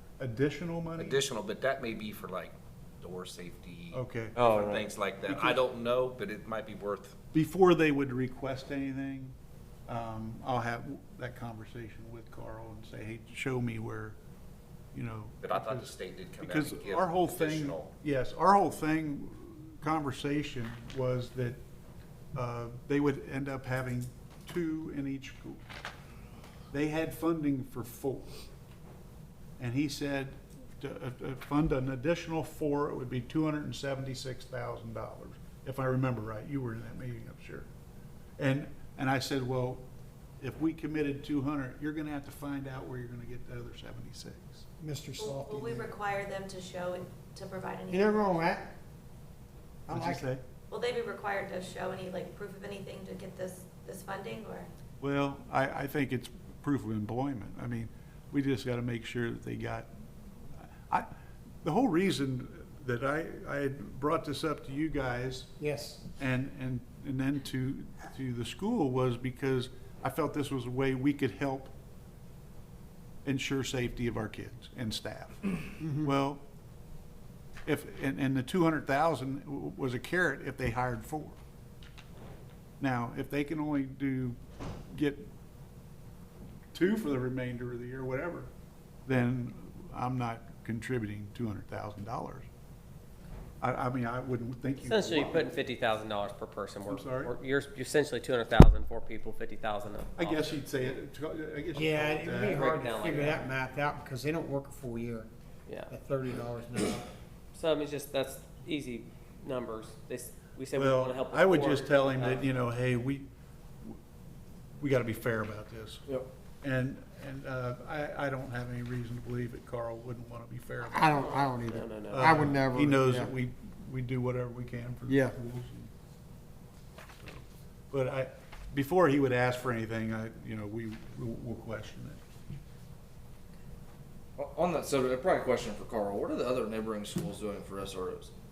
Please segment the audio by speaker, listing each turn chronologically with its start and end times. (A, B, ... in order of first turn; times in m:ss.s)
0:00.2-0:01.2 A
0:01.0-0:07.2 B
0:03.9-0:04.4 A
0:04.4-0:04.9 C
0:05.2-0:05.6 A
0:07.3-0:09.4 A
0:09.9-0:14.2 A
0:14.9-0:21.6 A
0:15.4-0:17.9 B
0:22.3-0:25.6 A
0:26.7-0:28.4 A
0:29.6-0:37.7 A
0:38.4-0:39.8 A
0:40.4-0:44.7 A
0:44.8-0:45.9 D
0:45.2-0:48.5 E
0:47.9-0:48.7 D
0:49.9-0:50.3 D
0:49.9-0:50.4 A
0:50.7-0:54.7 E
0:55.0-0:59.9 A
1:00.6-1:01.1 A
1:01.6-1:05.5 A
1:05.6-1:06.0 D
1:06.2-1:11.7 A
1:13.2-1:16.4 A
1:15.8-1:16.1 D
1:17.6-1:21.4 A
1:22.8-1:24.4 A
1:24.9-1:25.3 A
1:26.7-1:28.5 A
1:29.0-1:32.5 A
1:33.6-1:35.5 A
1:34.8-1:40.4 C
1:36.9-1:37.3 A
1:40.2-1:43.5 A
1:41.7-1:45.3 D
1:42.5-1:43.4 C
1:45.7-1:45.9 C
1:45.9-1:47.1 D
1:47.5-1:52.5 C
1:50.7-1:53.3 A
1:54.8-1:56.0 A
1:56.6-2:01.4 A
2:00.8-2:03.3 D
2:01.0-2:02.5 C
2:02.0-2:05.9 A
2:05.1-2:05.4 D
2:07.2-2:12.2 A
2:14.4-2:18.3 F